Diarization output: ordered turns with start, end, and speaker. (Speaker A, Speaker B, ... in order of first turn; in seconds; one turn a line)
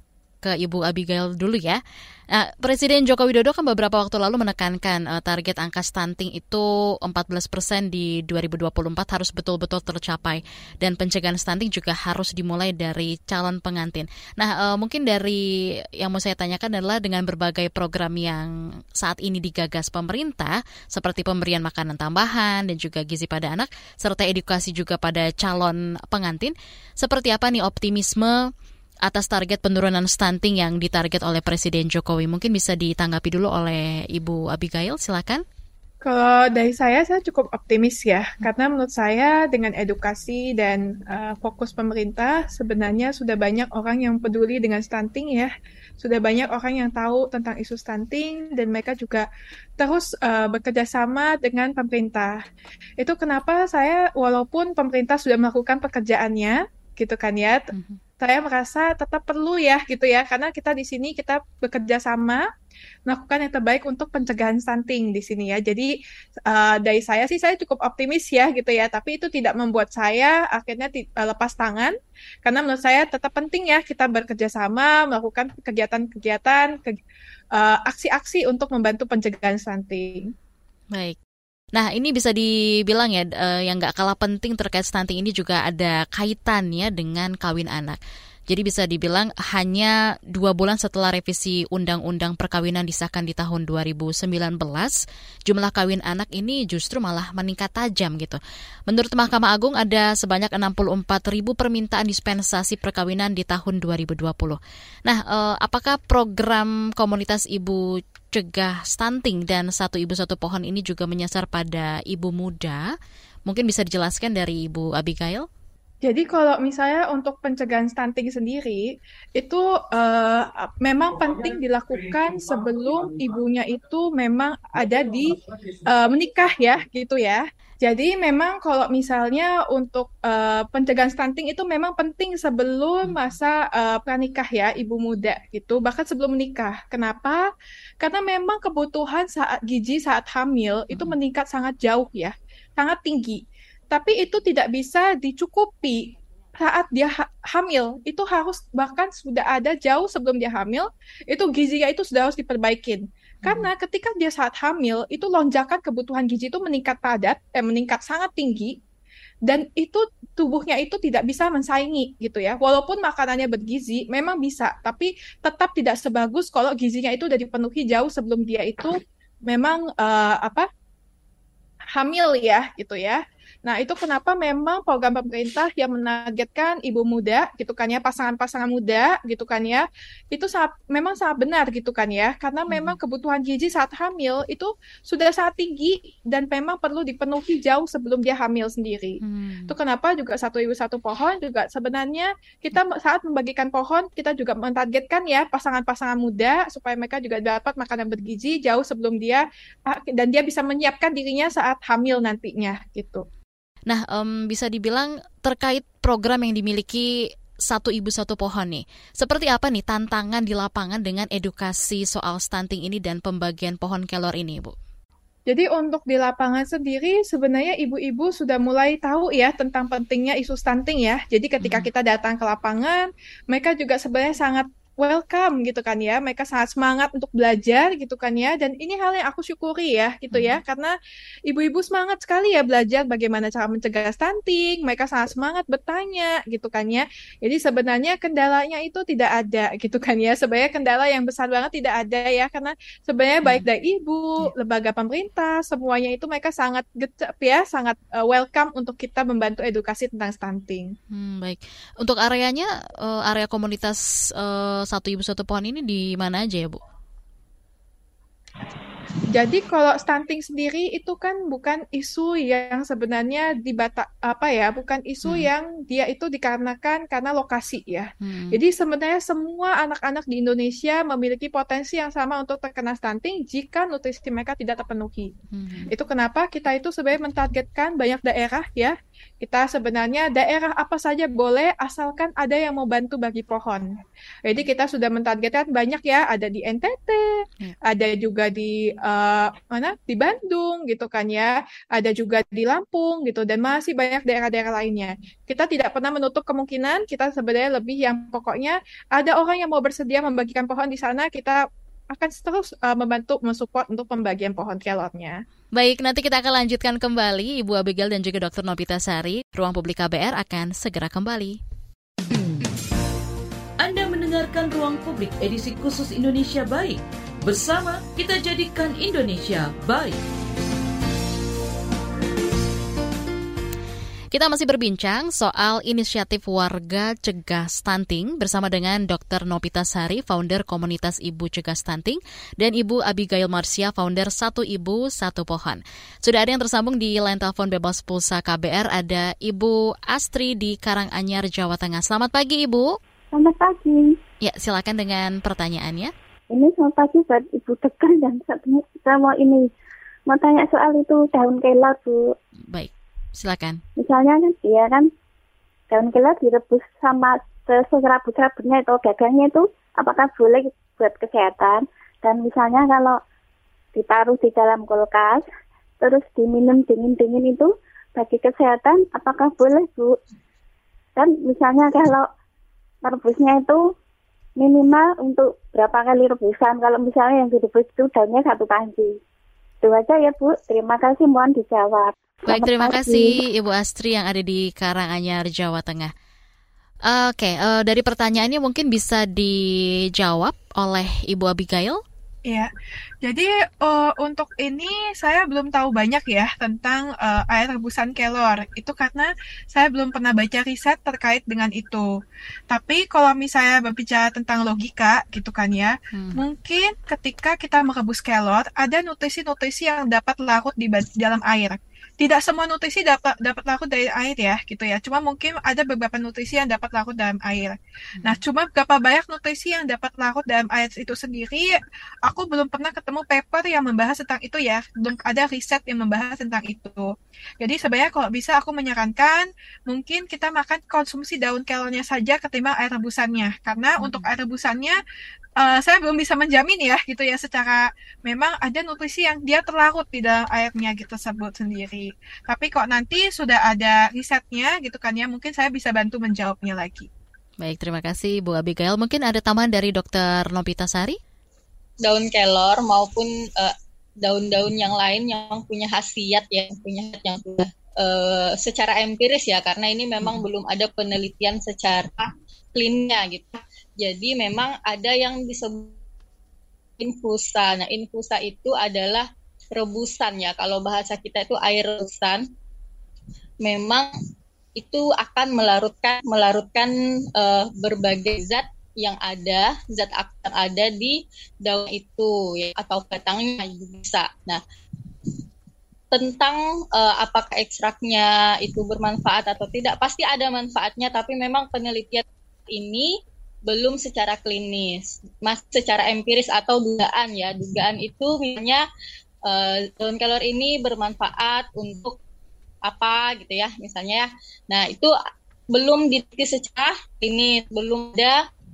Speaker A: 0.4-1.8
Speaker A: 2.3-15.4
Speaker A: 16.0-28.4
Speaker A: 29.1-35.4
Speaker B: 36.0-49.2
Speaker B: 49.8-52.4
Speaker B: 53.0-57.7
Speaker A: 57.7-58.0
Speaker B: 58.2-62.4
Speaker B: 63.1-65.9
Speaker B: 66.5-71.9
Speaker B: 72.4-76.9
Speaker B: 77.5-80.3
Speaker A: 81.7-112.9
Speaker A: 113.5-115.5
Speaker B: 116.0-125.4
Speaker B: 125.9-137.4
Speaker B: 138.0-158.8
Speaker A: 153.4-153.7
Speaker B: 159.5-168.9
Speaker B: 169.5-170.7
Speaker B: 171.9-189.2
Speaker A: 182.7-182.9
Speaker A: 189.2-189.7
Speaker B: 189.7-203.2
Speaker A: 203.9-207.1
Speaker A: 207.7-214.8
Speaker B: 215.5-230.9
Speaker A: 221.6-221.9
Speaker A: 230.3-230.6
Speaker B: 231.5-250.9
Speaker A: 251.1-256.8
Speaker B: 259.3-275.3
Speaker A: 265.2-265.5
Speaker A: 268.2-268.6
Speaker A: 275.5-275.9
Speaker B: 275.9-283.9
Speaker B: 284.4-287.2
Speaker B: 287.8-301.6
Speaker B: 302.1-305.4
Speaker A: 305.8-311.6
Speaker C: 313.8-320.2
Speaker A: 324.3-342.9
Speaker D: 343.3-344.2
Speaker A: 344.4-346.1
Speaker D: 346.5-349.7
Speaker D: 350.3-352.3
Speaker A: 352.7-353.8
Speaker D: 354.0-355.1
Speaker D: 355.9-363.2
Speaker D: 363.9-365.4
Speaker D: 366.0-370.2
Speaker D: 371.1-372.3
Speaker D: 373.0-373.8
Speaker D: 374.6-379.2
Speaker D: 379.8-383.3
Speaker A: 382.5-386.1
Speaker A: 387.1-389.6
Speaker A: 390.1-392.0
Speaker B: 393.2-402.1
Speaker B: 402.7-421.7
Speaker A: 406.1-406.4
Speaker B: 422.2-427.0
Speaker B: 427.6-435.0
Speaker A: 434.0-434.2
Speaker B: 435.6-447.1
Speaker A: 447.6-451.2
Speaker E: 452.0-465.9
Speaker E: 467.0-472.4
Speaker E: 473.6-474.1
Speaker E: 474.7-484.6
Speaker E: 486.1-493.1
Speaker E: 493.7-498.8
Speaker E: 499.5-502.2
Speaker E: 502.8-505.1
Speaker E: 505.7-508.4